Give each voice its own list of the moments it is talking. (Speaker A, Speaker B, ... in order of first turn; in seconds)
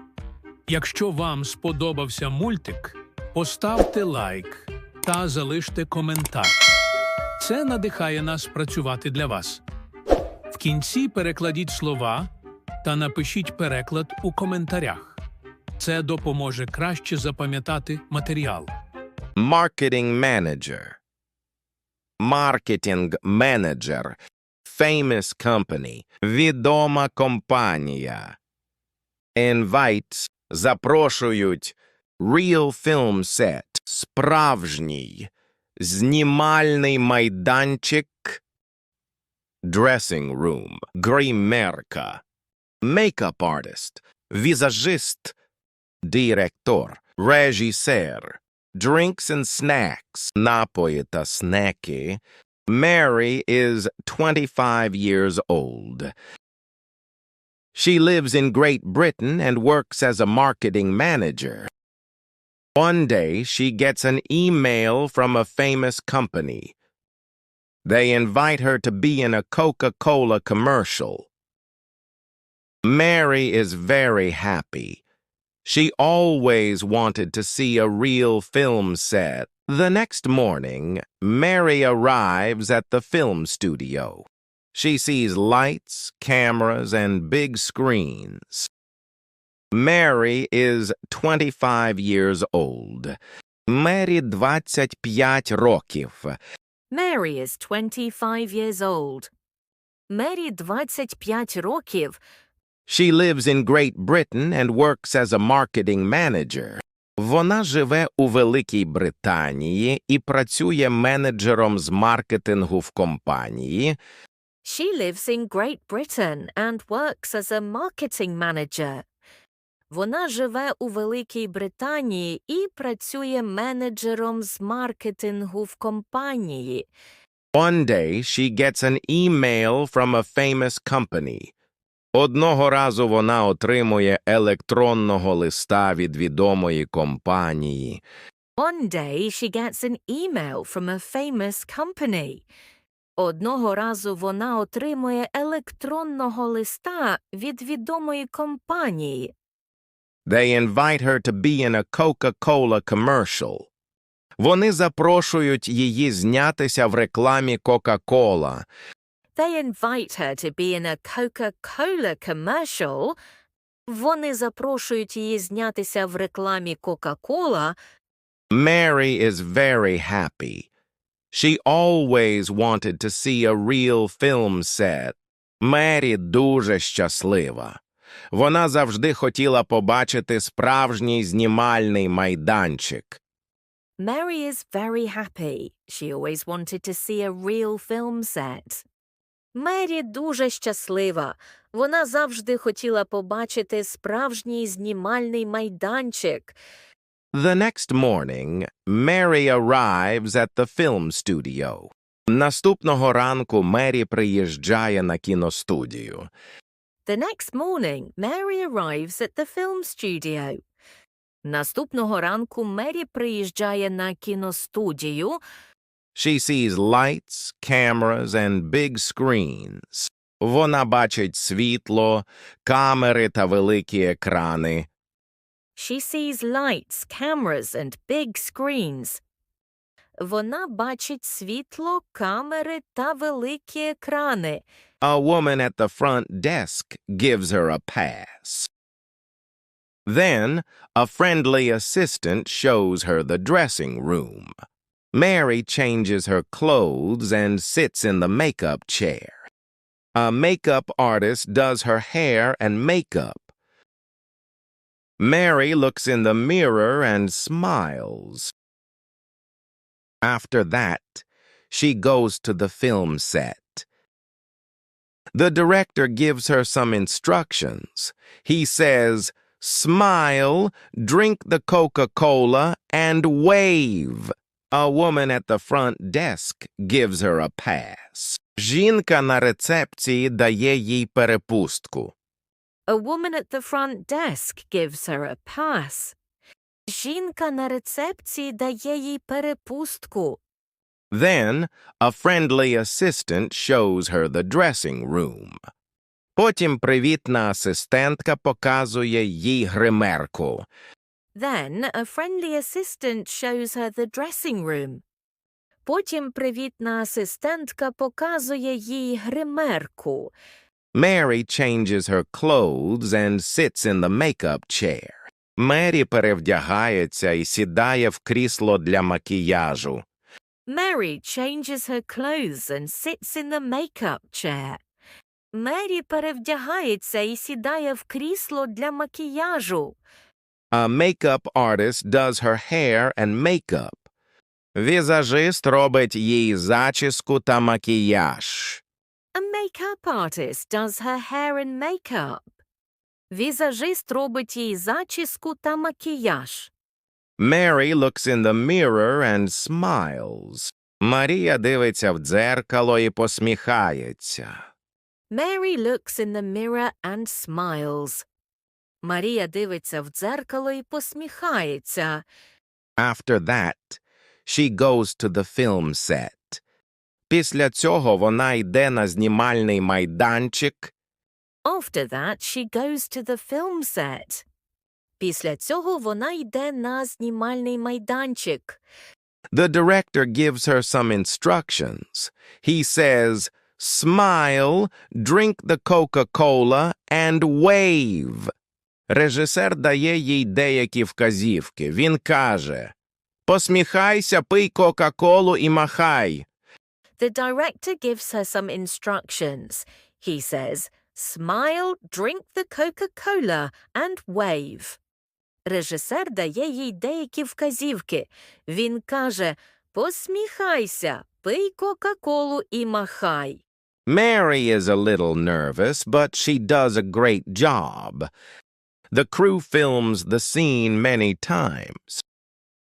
Speaker A: 0.7-6.5, 7.4-9.6, 10.5-12.3, 12.8-15.2, 15.8-18.7
Speaker B: 19.4-21.0, 22.2-28.4, 29.3-38.4, 39.6-42.2, 42.8-45.3, 46.0-56.1, 57.7-61.7, 62.8-66.7, 67.8-71.3, 72.8-75.0, 75.6-88.7, 89.7-96.4, 102.9-114.0, 127.5-131.5, 132.1-138.0, 150.2-153.7, 154.4-158.7, 168.5-170.7, 171.3-177.8, 178.3-183.2, 197.3-206.3, 216.1-224.9, 235.0-238.7, 240.1-244.5, 245.1-249.4, 250.1-253.5, 255.2-258.5, 260.2-263.9, 265.3-282.1, 291.1-295.6, 296.4-300.7, 310.9-320.1, 330.7-334.0, 334.7-338.8, 347.4-354.6, 363.0-366.6, 367.3-370.9, 379.5-388.5, 389.1-392.9, 393.5-396.4, 414.1-418.3, 419.1-422.2
Speaker C: 96.9-99.3, 100.1-102.2, 114.6-119.0, 119.9-126.9, 138.6-142.4, 143.2-149.3, 159.3-163.2, 163.9-167.8, 184.0-188.8, 189.5-196.6, 207.0-210.6, 211.4-215.4, 225.8-229.2, 230.2-234.6, 282.9-286.1, 286.9-290.4, 301.3-305.0, 305.8-310.3, 320.6-324.8, 325.5-330.0, 339.3-342.4, 343.3-346.7, 355.3-358.2, 359.0-362.2, 371.6-374.4, 375.2-378.8, 397.2-405.0, 405.6-413.6